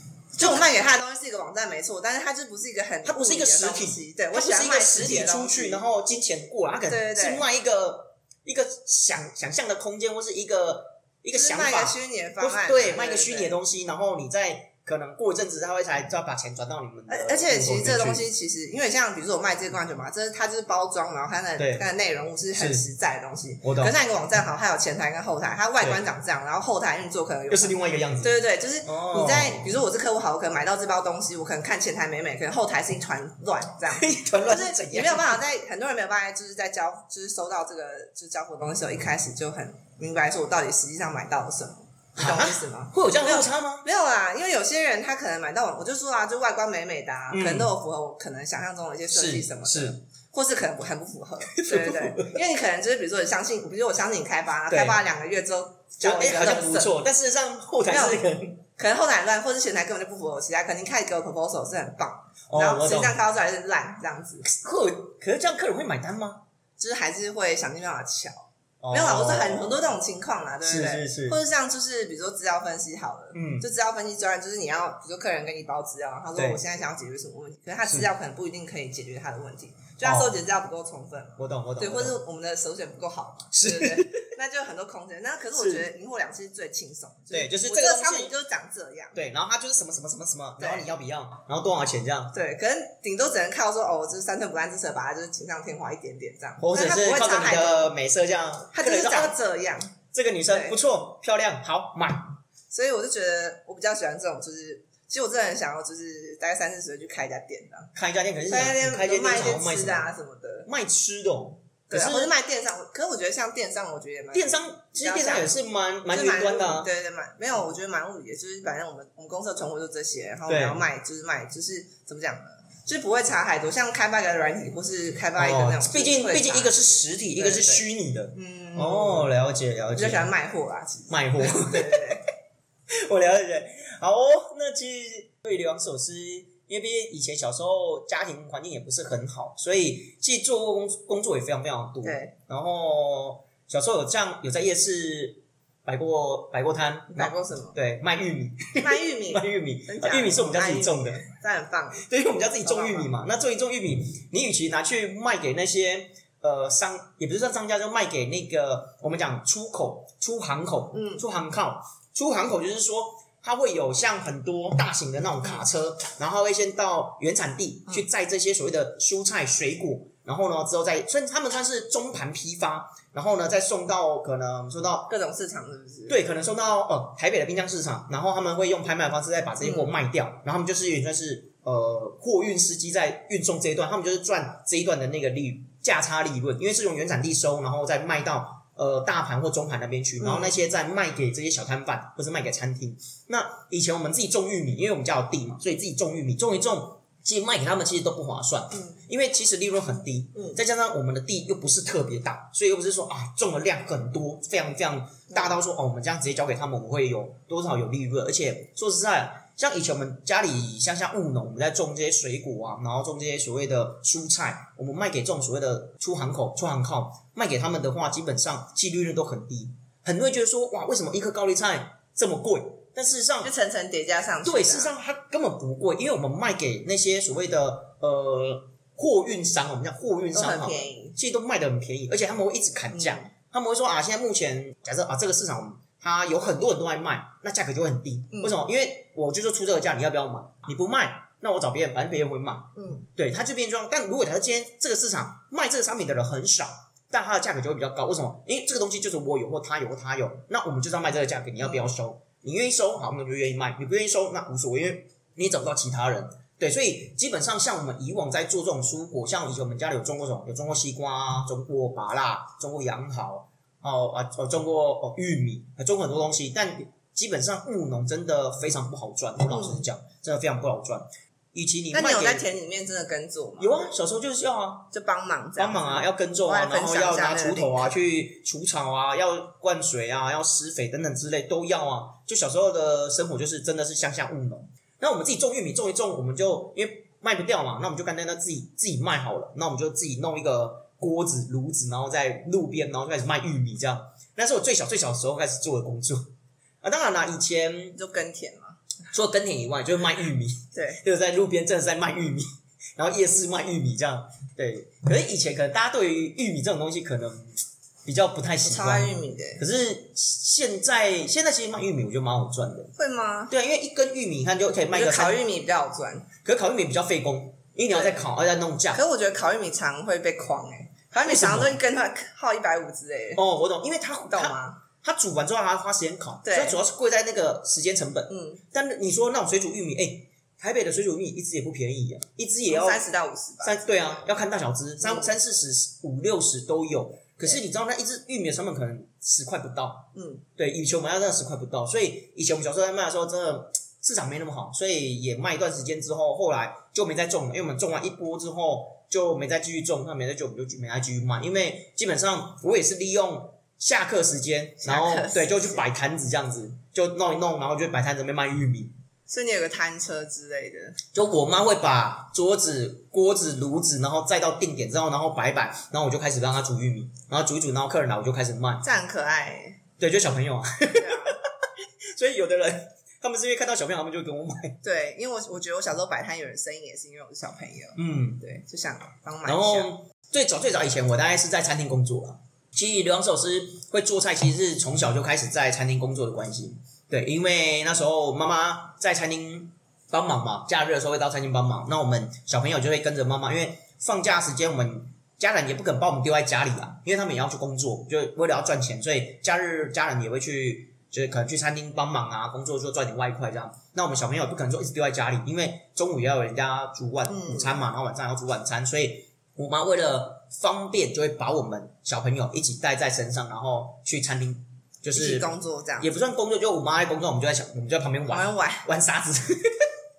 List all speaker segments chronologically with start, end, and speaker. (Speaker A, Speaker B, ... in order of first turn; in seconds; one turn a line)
Speaker A: 0.3-5.8
Speaker B: 0.4-0.7
Speaker B: 3.0-18.2
Speaker A: 6.9-7.5
Speaker A: 11.3-13.6
Speaker A: 17.1-57.0
Speaker B: 21.6-21.9
Speaker B: 22.6-22.8
Speaker B: 23.6-23.9
Speaker B: 27.5-29.7
Speaker B: 33.9-35.4
Speaker B: 42.2-43.9
Speaker B: 47.3-47.7
Speaker B: 49.1-50.0
Speaker B: 51.5-52.4
Speaker B: 54.7-55.0
Speaker B: 56.0-58.6
Speaker A: 57.9-58.2
Speaker A: 58.8-64.5
Speaker B: 62.5-63.2
Speaker B: 64.4-66.4
Speaker A: 66.8-89.2
Speaker B: 68.8-69.8
Speaker B: 70.6-71.4
Speaker B: 73.3-73.7
Speaker B: 76.3-76.6
Speaker B: 80.0-80.4
Speaker B: 81.4-82.2
Speaker B: 83.5-84.3
Speaker B: 85.6-85.9
Speaker B: 87.3-88.3
Speaker B: 89.1-92.3
Speaker A: 90.6-90.9
Speaker A: 92.3-97.9
Speaker B: 96.6-99.4
Speaker A: 98.7-100.0
Speaker B: 100.1-102.4
Speaker A: 100.5-100.8
Speaker A: 102.7-107.9
Speaker B: 108.0-110.1
Speaker A: 108.5-110.7
Speaker B: 110.7-112.3
Speaker A: 111.9-115.5
Speaker B: 114.3-116.9
Speaker A: 116.1-126.7
Speaker B: 120.5-120.8
Speaker B: 125.4-130.3
Speaker A: 127.4-129.3
Speaker A: 129.9-132.2
Speaker B: 131.1-132.2
Speaker B: 132.9-151.3
Speaker A: 142.0-142.3
Speaker A: 147.1-147.8
Speaker A: 148.8-152.0
Speaker B: 152.0-175.1
Speaker A: 152.6-153.1
Speaker A: 160.9-161.2
Speaker A: 175.1-176.2
Speaker B: 176.1-223.5
Speaker A: 179.6-179.9
Speaker A: 190.2-190.6
Speaker A: 198.7-199.0
Speaker A: 223.4-224.9
Speaker B: 224.4-272.5
Speaker A: 230.3-231.2
Speaker A: 232.9-233.3
Speaker A: 238.3-238.6
Speaker A: 242.8-243.1
Speaker A: 269.5-269.8
Speaker A: 271.9-273.9
Speaker B: 273.6-274.9
Speaker A: 274.9-277.9
Speaker B: 275.6-296.3
Speaker B: 296.8-298.0
Speaker A: 297.9-298.8
Speaker B: 299.1-312.9
Speaker A: 300.7-301.0
Speaker A: 308.6-309.6
Speaker A: 313.0-313.5
Speaker B: 313.5-315.4
Speaker A: 314.9-316.3
Speaker B: 316.4-319.0
Speaker A: 317.9-318.2
Speaker A: 318.9-323.4
Speaker B: 321.2-321.8
Speaker B: 323.4-333.1
Speaker A: 324.3-324.8
Speaker A: 326.4-326.8
Speaker A: 328.3-328.6
Speaker A: 332.7-333.8
Speaker B: 333.6-358.9
Speaker A: 335.0-335.3
Speaker A: 340.1-340.4
Speaker A: 354.8-355.9
Speaker A: 359.3-361.0
Speaker B: 361.1-368.9
Speaker A: 368.8-369.8
Speaker B: 370.0-374.8
Speaker A: 370.9-371.4
Speaker A: 374.8-379.9
Speaker B: 378.0-378.4
Speaker B: 379.5-415.5
Speaker A: 407.3-407.8
Speaker A: 415.1-416.1
Speaker B: 416.0-419.8
Speaker A: 418.3-418.9